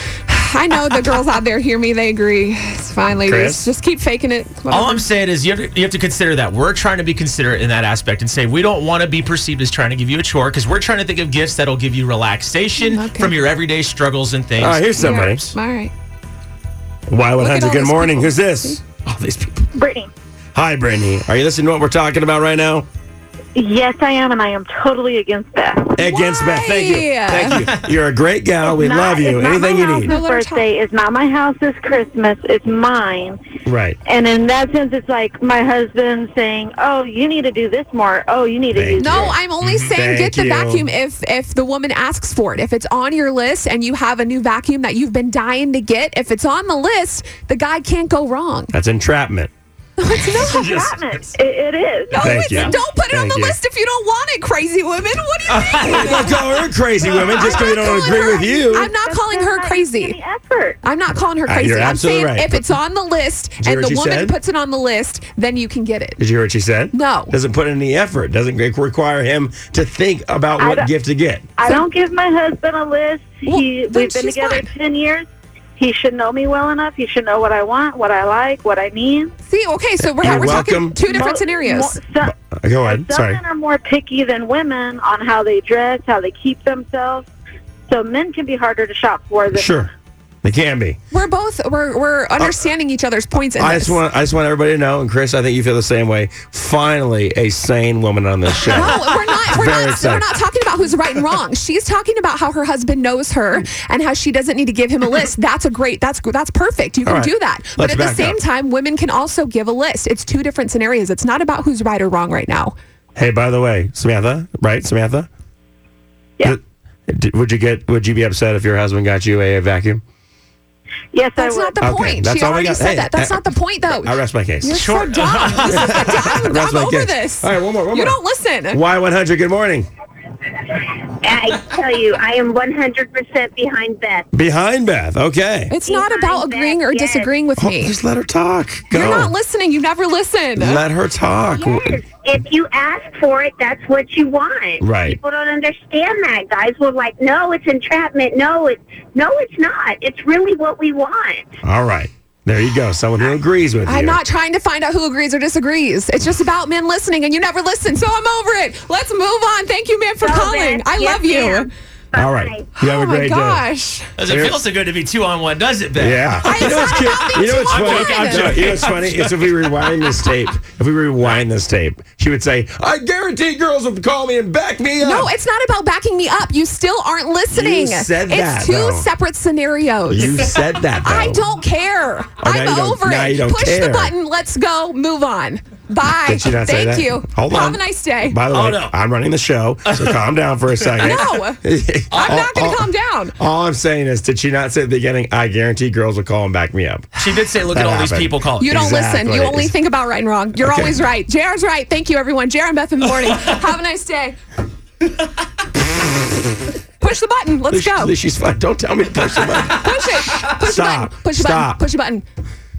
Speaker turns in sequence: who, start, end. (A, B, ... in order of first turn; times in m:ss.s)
0:00.2-0:05.1 A
0:03.2-0:03.7 B
0:04.7-0:15.4 C
0:12.8-0:13.4 A
0:14.6-0:15.5 B
0:15.0-0:15.9 A
0:17.1-0:19.7 B
0:17.4-0:18.8 A
0:19.8-0:20.1 D
0:20.6-0:22.9 B
0:23.6-0:26.2 D
0:26.0-0:30.2 B
0:26.1-0:27.7 A
0:28.6-0:33.4 D
0:30.0-0:30.6 A
0:33.7-0:34.0 B
0:34.0-0:39.3 D
0:38.7-0:40.9 B
0:39.0-0:48.7 A
0:39.6-0:40.0 C
0:48.7-0:49.5 B
0:50.0-0:50.9 A
0:50.4-0:50.9 B
0:50.4-0:52.4 D
0:52.1-0:56.4 A
0:52.2-0:53.6 B
0:55.5-0:56.2 C
0:55.8-0:58.9 B
0:57.3-1:00.2 A
0:57.3-1:00.8 D
1:00.8-1:06.2 A
1:01.5-1:02.7 B
1:03.6-1:04.4 B
1:06.2-1:11.5 B
1:06.9-1:07.3 A
1:10.6-1:10.9 D
1:11.6-1:19.3 D
1:13.4-1:14.7 A
1:19.5-1:22.0 A
1:20.1-1:21.0 B
1:20.3-1:22.3 D
1:22.2-1:23.4 B
1:22.9-1:27.3 D
1:27.9-1:29.9 D
1:29.5-1:29.9 B
1:30.4-1:31.0 B
1:31.1-1:34.0 A
1:32.4-1:32.6 B
1:33.6-1:40.4 B
1:38.6-1:52.8 A
1:47.0-1:48.4 B
1:53.2-1:55.3 B
1:56.4-2:00.0 B
2:01.1-2:01.8 D
2:01.4-2:08.8 A
2:01.8-2:04.9 B
2:04.7-2:06.1 C
2:05.6-2:08.2 B
2:08.7-2:09.9 B
2:10.8-2:14.3 E
2:14.3-2:15.7 B
2:15.7-2:18.0 A
2:15.8-2:17.3 E
2:17.6-2:19.4 B
2:18.9-2:20.8 A
2:20.6-2:22.0 B
2:21.5-2:31.6 E
2:24.8-2:25.2 B
2:31.6-2:34.2 B
2:33.9-2:41.7 A
2:40.2-2:42.7 E
2:42.2-2:43.6 B
2:42.8-2:44.1 A
2:44.2-2:49.6 C
2:44.2-2:44.6 B
2:46.0-2:55.3 B
2:46.4-2:48.8 A
2:55.0-3:08.4 A
2:57.5-2:59.1 B
3:00.1-3:01.5 B
3:02.4-3:04.1 B
3:06.2-3:19.7 B
3:08.5-3:09.0 C
3:09.9-3:10.2 C
3:11.0-3:11.6 A
3:12.1-3:12.5 C
3:12.2-3:13.4 A
3:17.2-3:18.7 C
3:18.6-3:24.4 A
3:20.6-3:21.0 B
3:27.0-3:28.1 A
3:27.7-3:31.8 B
3:29.8-3:32.2 A